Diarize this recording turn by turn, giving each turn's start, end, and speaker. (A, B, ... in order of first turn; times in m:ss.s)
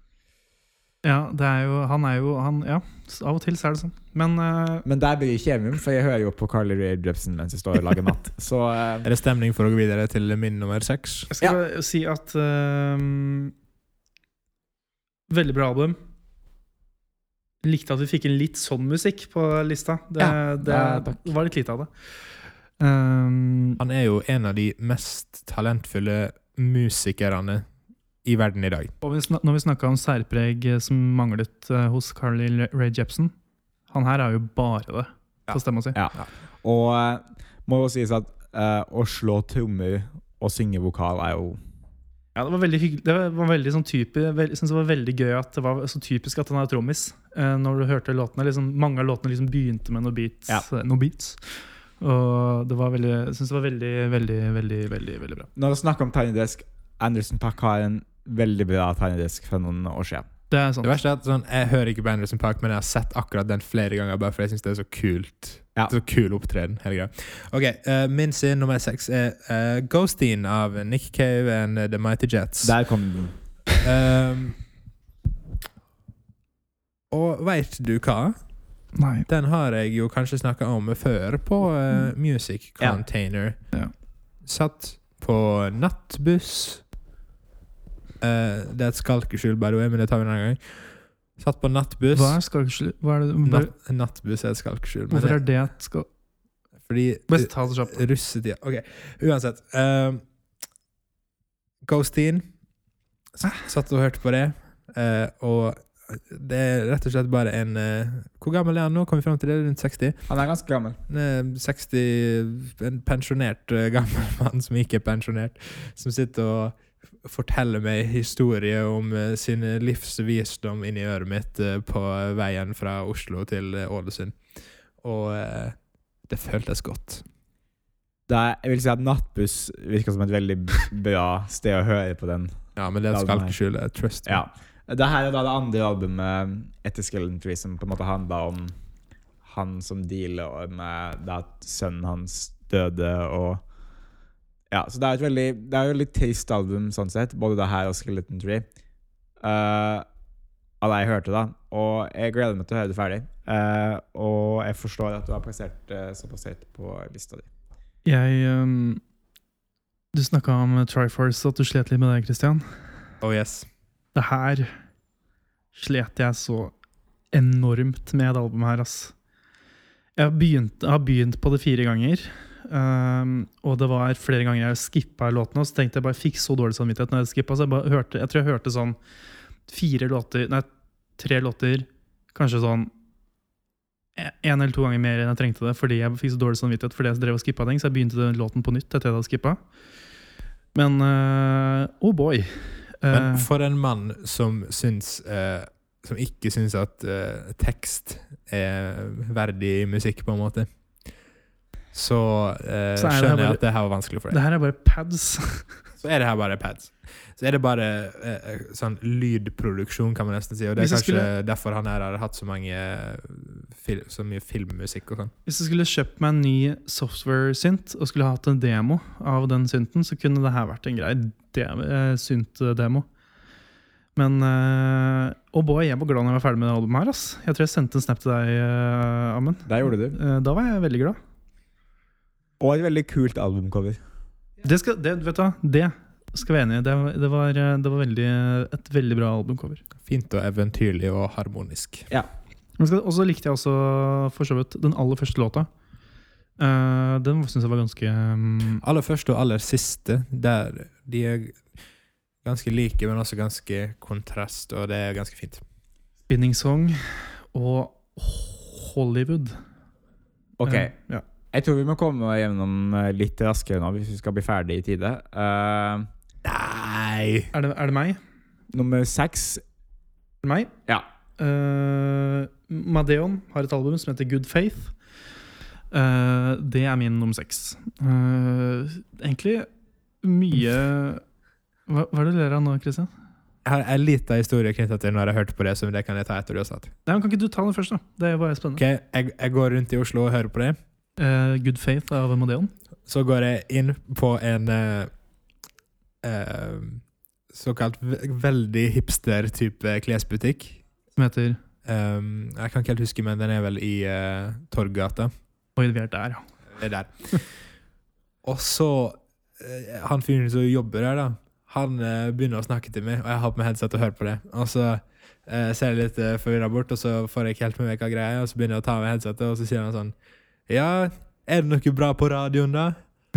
0:01.0-0:04.8 A
0:04.8-0:09.1 B
0:09.0-0:11.3 C
0:11.3-0:13.5 A
0:15.3-0:16.0 A
0:17.6-0:21.9 A
0:20.2-0:21.2 B
0:22.8-0:23.8 A
0:23.8-0:27.7 C
0:28.2-0:28.9 C
0:29.0-0:33.3 A
0:33.9-0:36.0 A
0:35.9-0:41.6 B
0:42.3-0:55.5 A
0:55.5-1:00.3 B
1:00.5-1:01.0 A
1:00.8-1:12.7 C
1:12.6-1:13.4 B
1:13.8-1:14.6 C
1:17.1-1:18.4 C
1:19.0-1:19.3 A
1:19.3-1:23.6 C
1:24.4-1:26.8 C
1:28.2-1:32.4 C
1:32.1-1:33.7 A
1:33.4-1:35.4 C
1:35.1-1:36.1 A
1:36.9-1:40.2 C
1:37.3-1:38.0 A
1:41.8-1:42.5 C
1:43.4-1:50.2 C
1:50.3-1:51.0 B
1:51.1-2:04.4 C
2:05.0-2:05.8 C
2:06.3-2:07.2 C
2:08.3-2:13.6 B
2:12.8-2:14.4 C
2:14.2-2:18.7 B
2:19.4-2:23.6 B
2:24.7-2:28.6 B
2:29.4-2:30.0 B
2:30.8-2:37.5 B
2:38.0-2:39.0 A
2:40.1-2:42.7 A
2:43.2-2:43.7 C
2:44.1-2:44.7 A
2:45.7-2:46.7 A
2:47.3-2:49.1 A
2:50.2-2:59.0 A
2:59.7-3:00.7 A
3:01.2-3:02.9 A
3:04.2-3:09.6 A
3:10.7-3:13.5 A
3:13.1-3:20.7 C
3:21.9-3:24.4 C
3:23.0-3:23.6 A
3:24.3-3:25.7 A
3:26.0-3:35.3 C
3:30.8-3:31.3 A
3:35.4-3:43.0 A
3:44.2-3:51.2 A
3:49.6-3:50.2 B
3:52.6-3:54.0 B
3:54.6-3:59.8 A
4:00.0-4:02.1 C
4:02.8-4:05.7 A
4:06.6-4:08.8 A
4:08.8-4:11.6 C
4:12.4-4:15.6 C
4:16.3-4:19.6 A
4:20.6-4:20.9 B
4:20.7-4:21.2 A
4:21.5-4:26.1 B
4:26.4-4:27.5 C
4:27.5-4:28.2 A
4:28.7-4:29.6 B
4:30.4-4:30.7 A
4:31.4-4:34.9 A
4:35.9-4:39.7 A
4:40.2-4:41.2 A
4:41.9-4:43.1 A
4:43.6-4:46.9 C
4:47.0-4:48.8 A
4:48.8-4:50.8 C
4:51.2-4:52.7 A
4:53.1-4:55.1 C
4:56.2-5:00.8 C
5:01.2-5:01.6 A
5:01.9-5:05.3 C
5:05.8-5:06.4 A
5:06.7-5:07.4 C
5:08.4-5:20.1 C
5:20.7-5:23.0 C